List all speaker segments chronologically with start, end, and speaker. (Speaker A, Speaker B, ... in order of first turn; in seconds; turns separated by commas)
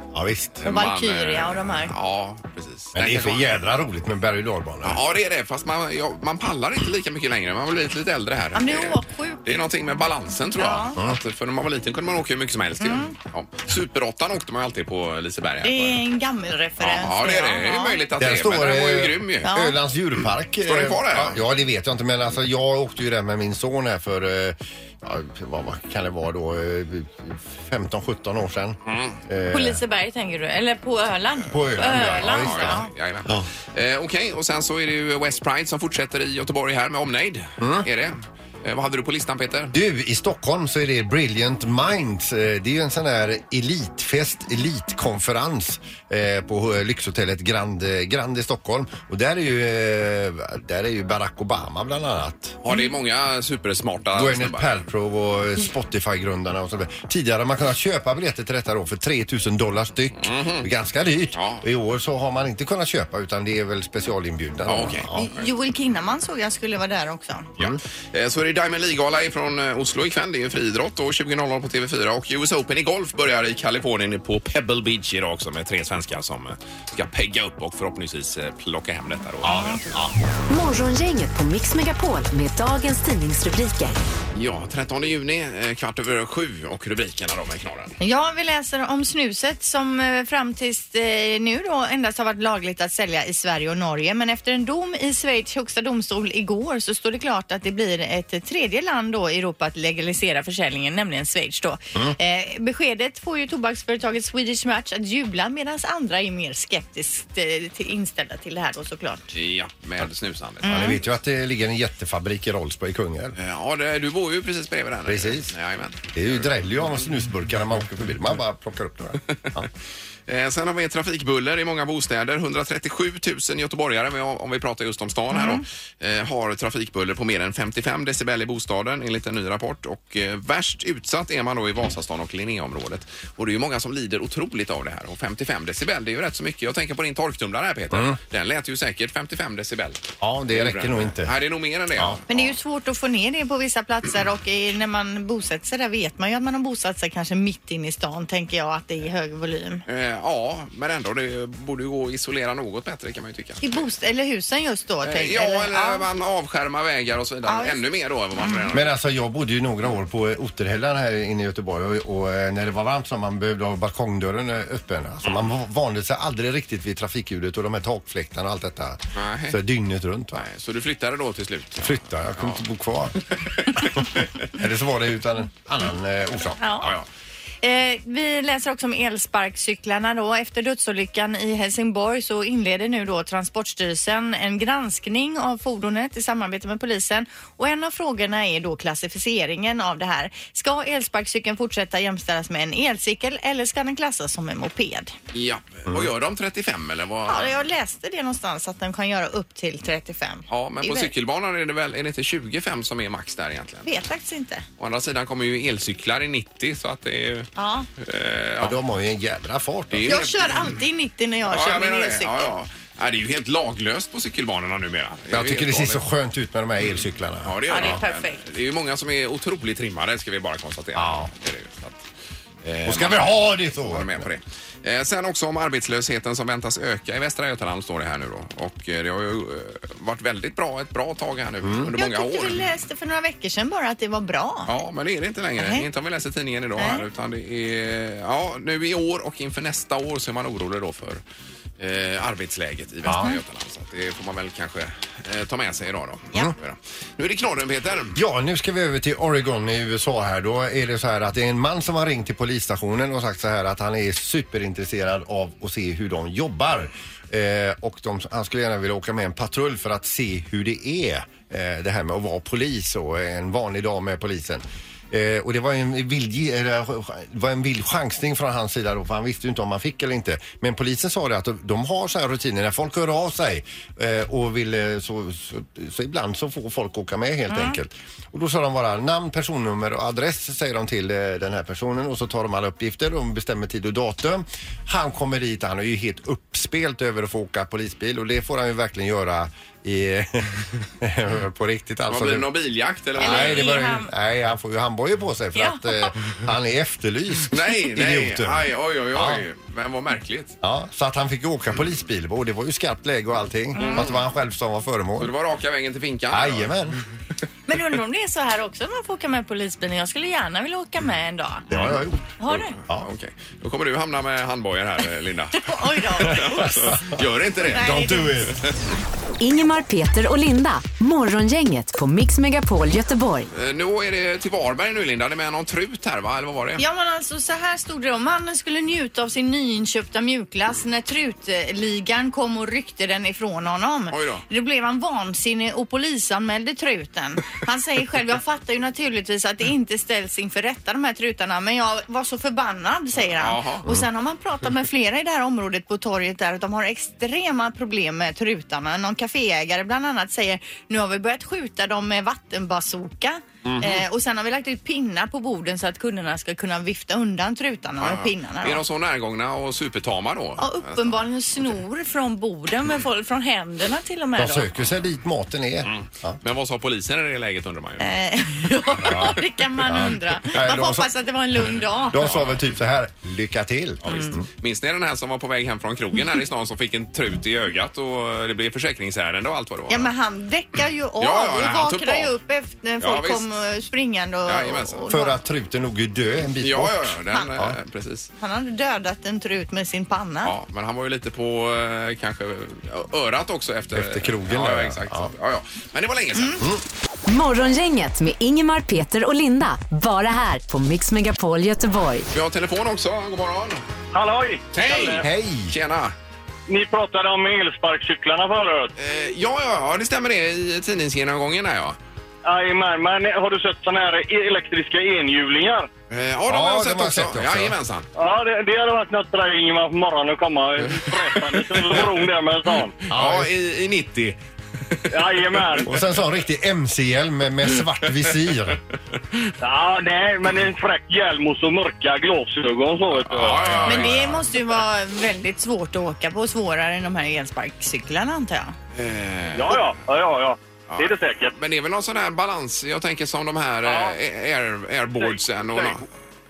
Speaker A: 0.1-0.6, Speaker B: 0.6-3.5, Speaker C: 0.7-1.9, Speaker A: 2.9-5.0, Speaker B: 4.8-16.0, Speaker C: 8.5-9.6, Speaker C: 10.6-11.0, Speaker C: 12.8-13.1, Speaker C: 15.6-18.0, Speaker B: 16.8-19.5, Speaker A: 18.2-29.8, Speaker C: 19.4-19.8, Speaker B: 20.6-21.4, Speaker B: 28.9-29.2, Speaker C: 29.5-32.9, Speaker A: 31.5-33.5, Speaker B: 31.8-39.7, Speaker A: 37.6-37.9, Speaker A: 39.7-52.6, Speaker B: 52.6-54.7, Speaker A: 54.1-65.2, Speaker B: 60.2-60.7, Speaker B: 61.3-61.6, Speaker B: 64.7-65.1, Speaker C: 65.1-67.5, Speaker B: 67.6-79.8, Speaker A: 79.4-80.1, Speaker D: 80.5-84.0, Speaker B: 84.3-88.0, Speaker C: 88.0-109.3, Speaker B: 109.3-110.8, Speaker C: 110.6-111.0, Speaker A: 110.7-113.3, Speaker B: 113.4-116.5, Speaker A: 115.0-115.5, Speaker A: 116.1-119.7, Speaker B: 120.3-142.5, Speaker C: 125.3-125.6, Speaker A: 137.9-138.2, Speaker A: 140.2-141.3, Speaker A: 141.9-142.2, Speaker C: 142.3-149.8, Speaker B: 149.9-153.8, Speaker C: 153.6-156.1, Speaker B: 155.0-158.9, Speaker C: 157.4-157.8, Speaker C: 158.4-158.7, Speaker A: 158.7-170.4, Speaker B: 169.1-169.6, Speaker B: 170.3-172.6, Speaker A: 171.8-173.2, Speaker B: 173.3-174.3, Speaker A: 174.5-177.0, Speaker C: 176.6-176.9, Speaker C: 177.6-195.1, Speaker B: 195.3-197.5, Speaker C: 197.3-201.1, Speaker B: 200.5-203.9, Speaker C: 203.8-204.6, Speaker B: 204.8-208.8, Speaker C: 207.6-207.9, Speaker A: 208.6-210.2, Speaker B: 209.9-210.7, Speaker C: 210.1-212.5, Speaker B: 211.5-216.0, Speaker A: 215.3-218.0, Speaker B: 217.4-222.0, Speaker C: 217.7-218.4, Speaker A: 220.9-221.3, Speaker B: 222.6-232.6, Speaker A: 222.8-224.3, Speaker A: 231.6-231.9, Speaker C: 232.0-234.7, Speaker B: 234.7-241.2, Speaker C: 235.6-235.8, Speaker C: 236.8-237.0, Speaker B: 241.8-248.2, Speaker A: 243.1-243.4, Speaker A: 248.1-292.5, Speaker C: 277.5-277.8, Speaker B: 292.1-293.7, Speaker C: 293.2-294.1, Speaker A: 293.2-299.4, Speaker C: 295.5-296.1, Speaker B: 297.5-300.6, Speaker A: 300.6-305.3, Speaker C: 303.8-304.1, Speaker B: 303.8-304.2, Speaker B: 305.2-306.8, Speaker A: 306.3-307.0, Speaker C: 307.7-311.7, Speaker A: 311.7-312.3, Speaker B: 311.7-317.9, Speaker C: 312.4-312.7, Speaker C: 315.6-316.9, Speaker A: 316.3-316.9, Speaker C: 317.7-318.3, Speaker A: 317.7-318.6, Speaker D: 319.4-323.5, Speaker B: 323.5-326.8, Speaker C: 326.8-358.8, Speaker B: 334.1-334.4, Speaker B: 343.3-343.9, Speaker B: 353.6-354.0, Speaker B: 358.0-361.2, Speaker C: 360.6-364.7, Speaker A: 364.4-366.4, Speaker B: 365.8-368.1, Speaker C: 368.0-372.2, Speaker A: 369.0-371.1, Speaker A: 372.1-374.4, Speaker B: 372.2-372.6, Speaker B: 374.1-380.1, Speaker C: 379.9-385.4, Speaker B: 381.2-382.3, Speaker B: 383.0-383.4, Speaker B: 384.4-385.1, Speaker A: 385.1-387.8, Speaker B: 386.6-388.3, Speaker C: 388.4-390.5, Speaker B: 390.4-396.7, Speaker A: 393.9-395.3, Speaker D: 397.3-402.3, Speaker B: 402.3-403.8, Speaker E: 404.1-405.2, Speaker B: 404.7-406.1, Speaker A: 405.2-405.7, Speaker E: 406.7-408.9, Speaker B: 409.0-412.0, Speaker E: 412.4-415.9, Speaker B: 416.1-418.1, Speaker A: 416.5-417.8, Speaker E: 418.2-423.0, Speaker B: 423.1-425.8, Speaker A: 423.1-423.5, Speaker E: 425.1-425.9, Speaker A: 425.9-428.8, Speaker E: 429.6-433.9, Speaker B: 433.1-434.4, Speaker C: 433.8-438.8, Speaker B: 438.9-439.9, Speaker E: 439.5-441.6, Speaker B: 440.9-446.1, Speaker E: 443.8-444.1, Speaker E: 445.2-446.0